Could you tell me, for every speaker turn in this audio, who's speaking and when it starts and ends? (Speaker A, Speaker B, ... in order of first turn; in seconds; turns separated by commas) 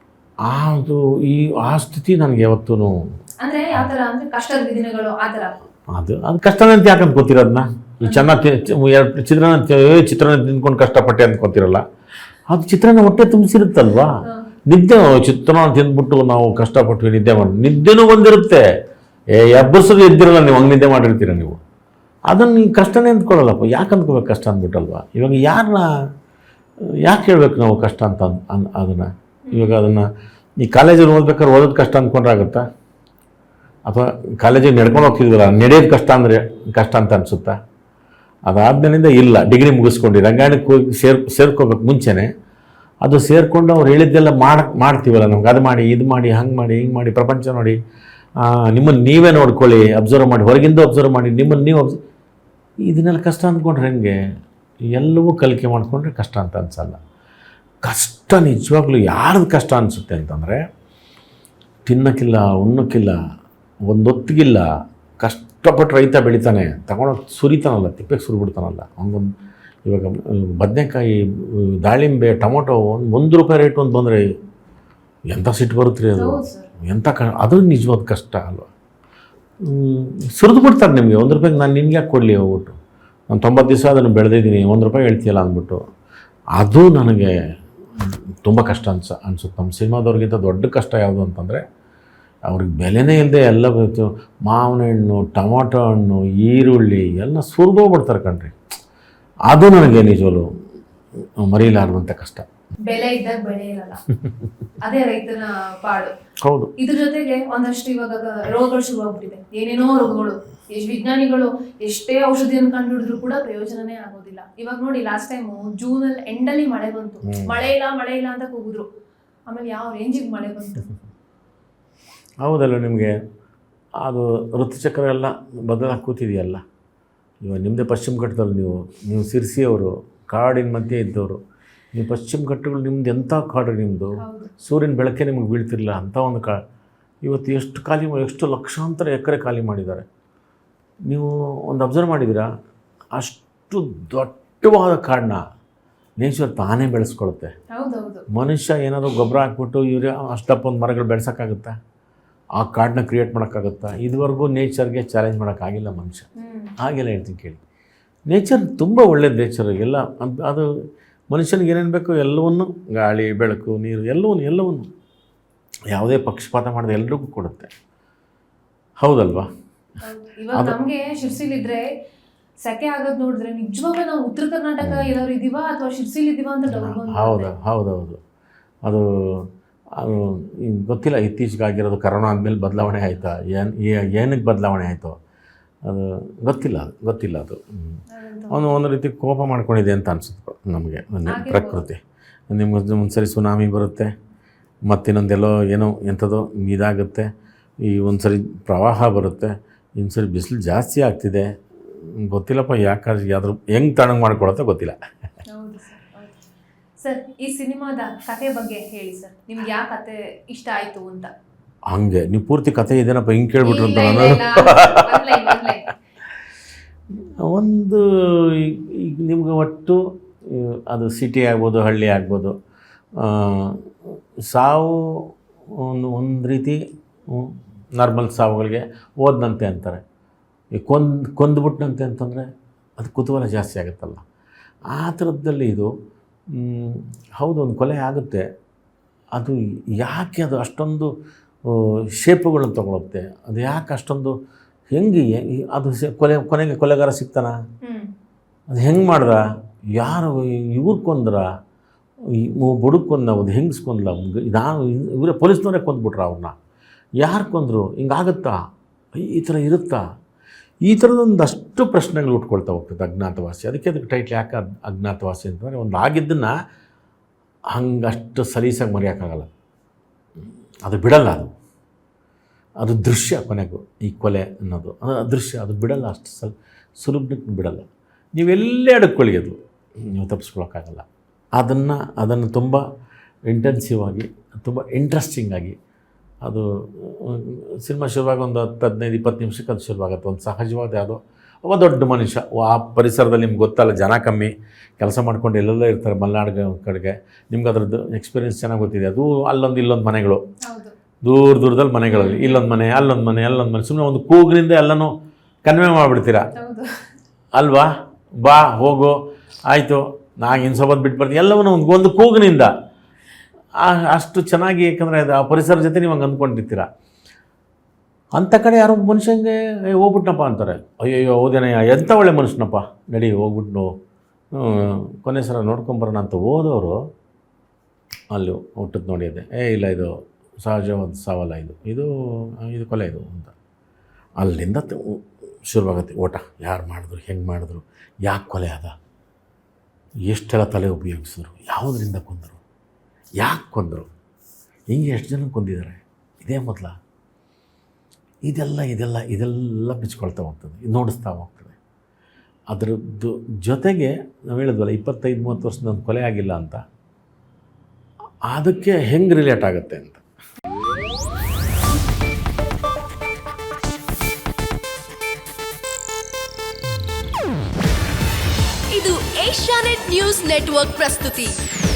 Speaker A: 0.5-3.0, Speaker B: 3.4-5.5, Speaker A: 5.9-11.8, Speaker A: 12.5-14.1, Speaker A: 14.7-18.7, Speaker A: 19.3-21.6, Speaker A: 22.3-25.9, Speaker A: 26.9-30.1, Speaker B: 29.5-29.8, Speaker A: 30.6-32.6, Speaker A: 33.9-37.6, Speaker A: 38.5-42.3, Speaker A: 43.0-47.8, Speaker A: 48.4-52.0, Speaker A: 52.9-54.2, Speaker A: 54.9-57.0, Speaker A: 57.8-60.6, Speaker A: 61.9-63.2, Speaker A: 63.9-64.7, Speaker A: 65.2-69.3, Speaker A: 69.9-74.2, Speaker A: 75.3-78.7, Speaker B: 76.2-76.7, Speaker A: 79.7-82.8, Speaker A: 83.3-85.8, Speaker A: 86.6-87.3, Speaker A: 88.0-91.6, Speaker A: 92.5-98.5, Speaker A: 99.5-100.5, Speaker A: 101.4-102.5, Speaker B: 102.9-104.0, Speaker A: 104.1-104.5, Speaker B: 104.8-106.1, Speaker A: 106.4-106.7, Speaker B: 106.8-118.9, Speaker A: 117.2-117.5, Speaker B: 119.5-120.9, Speaker A: 122.4-123.2, Speaker A: 124.0-126.6, Speaker A: 127.5-131.4, Speaker A: 131.9-136.6, Speaker B: 134.2-134.5, Speaker A: 137.2-140.1, Speaker A: 141.1-142.5, Speaker A: 143.2-145.4, Speaker A: 146.2-147.5, Speaker B: 147.7-148.2, Speaker A: 148.3-151.7, Speaker A: 152.6-156.3, Speaker B: 156.4-156.7, Speaker A: 156.8-157.6, Speaker A: 158.3-160.7, Speaker A: 161.3-164.9, Speaker A: 165.9-167.7, Speaker A: 169.0-169.5, Speaker B: 170.0-171.9, Speaker A: 170.5-170.8, Speaker B: 172.6-177.5, Speaker A: 174.8-175.1, Speaker A: 176.7-178.2, Speaker A: 178.8-185.1, Speaker A: 185.9-188.0, Speaker B: 188.1-188.7, Speaker A: 188.5-192.0, Speaker B: 191.3-191.8, Speaker A: 192.5-194.1, Speaker A: 194.9-197.3, Speaker A: 197.8-205.0, Speaker B: 205.5-206.4, Speaker B: 207.0-211.3, Speaker A: 211.9-215.6, Speaker B: 213.6-215.9, Speaker A: 217.2-222.5, Speaker A: 223.2-230.0, Speaker A: 230.7-234.2, Speaker A: 234.9-235.9, Speaker A: 236.5-238.4, Speaker A: 239.3-241.1, Speaker A: 241.7-244.3, Speaker A: 244.9-247.6, Speaker B: 247.8-248.1, Speaker A: 248.7-249.4, Speaker A: 250.0-251.4, Speaker A: 252.3-256.5, Speaker A: 257.2-258.6, Speaker A: 259.2-260.0, Speaker A: 260.9-266.5, Speaker A: 267.7-269.5, Speaker A: 270.4-271.5, Speaker A: 272.8-279.6, Speaker A: 280.1-281.1, Speaker A: 281.6-282.8, Speaker A: 283.5-285.8, Speaker A: 286.4-300.4, Speaker B: 300.7-300.9, Speaker A: 301.2-305.1, Speaker B: 302.1-302.6, Speaker A: 305.6-306.5, Speaker B: 306.6-306.9, Speaker A: 307.6-307.9, Speaker A: 308.4-312.7, Speaker A: 313.8-316.9, Speaker A: 318.4-323.9, Speaker A: 324.6-327.0, Speaker A: 328.3-333.5, Speaker A: 334.4-338.9, Speaker A: 340.3-342.6, Speaker A: 343.4-344.1, Speaker A: 344.9-346.9, Speaker A: 348.5-351.8, Speaker A: 352.7-356.8, Speaker A: 358.5-360.2, Speaker C: 368.9-371.6